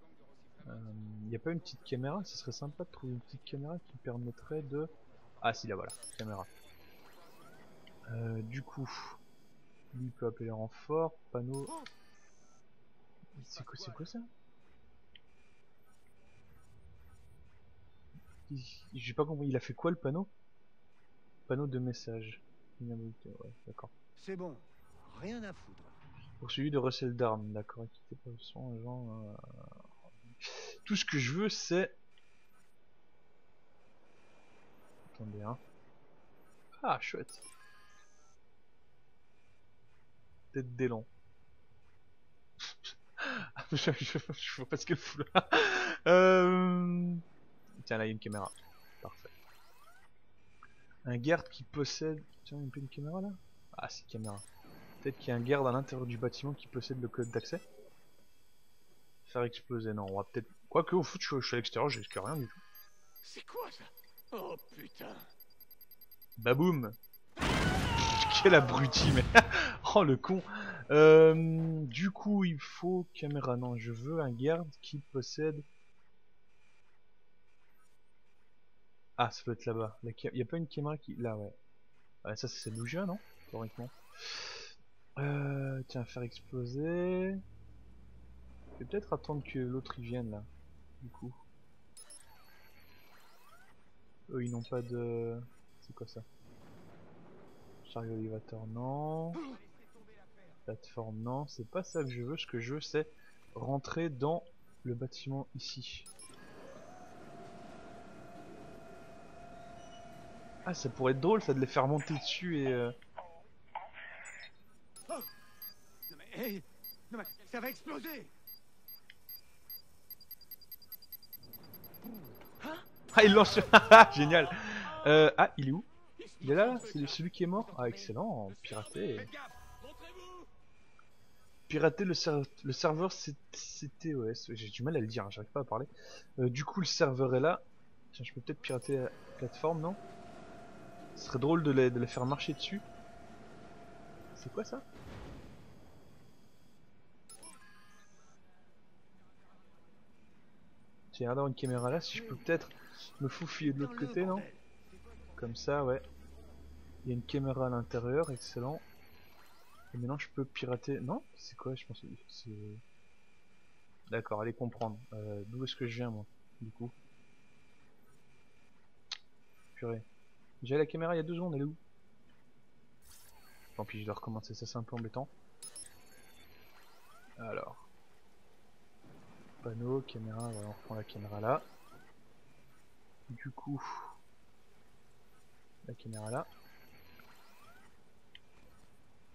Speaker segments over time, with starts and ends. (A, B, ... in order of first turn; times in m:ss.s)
0:00.6-0:06.5 A
0:08.1-0:09.2 A
0:09.9-0:11.7 A
0:13.4-0:14.3 A
0:18.5-0:20.3 A
0:21.5-0:23.9 A
0:24.2-0:25.9 B
0:26.4-0:29.4 A
0:30.4-0:32.0 A
0:35.1-0:35.6 A
0:36.8-0:37.4 A
0:40.5-0:41.1 A
0:42.6-0:47.2 A
0:47.8-0:49.3 A
0:51.0-0:54.4 A
0:55.0-0:57.6 A
0:59.2-1:02.6 A
1:03.2-1:05.3 C
1:06.4-1:07.0 A
1:08.0-1:15.6 A
1:19.2-1:21.6 A
1:22.2-1:27.4 A
1:28.8-1:30.5 A
1:31.0-1:31.4 A
1:34.3-1:36.2 A
1:37.8-1:39.5 A
1:40.7-1:46.1 A
1:50.6-1:52.9 A
1:56.1-1:58.3 B
2:03.1-2:09.3 A
2:11.7-2:17.6 A
2:18.1-2:20.0 A
2:21.2-2:22.8 A
2:24.3-2:24.8 A
2:31.1-2:34.5 A
2:33.6-2:34.6 B
2:35.4-2:36.0 A
2:37.0-2:38.8 A
2:39.9-2:42.8 A
2:44.1-2:46.9 A
2:49.7-2:50.0 A
2:50.6-2:51.8 A
2:53.8-2:55.3 A
2:57.4-2:57.9 A
2:59.6-3:01.6 A
3:03.3-3:04.1 A
3:05.8-3:06.5 A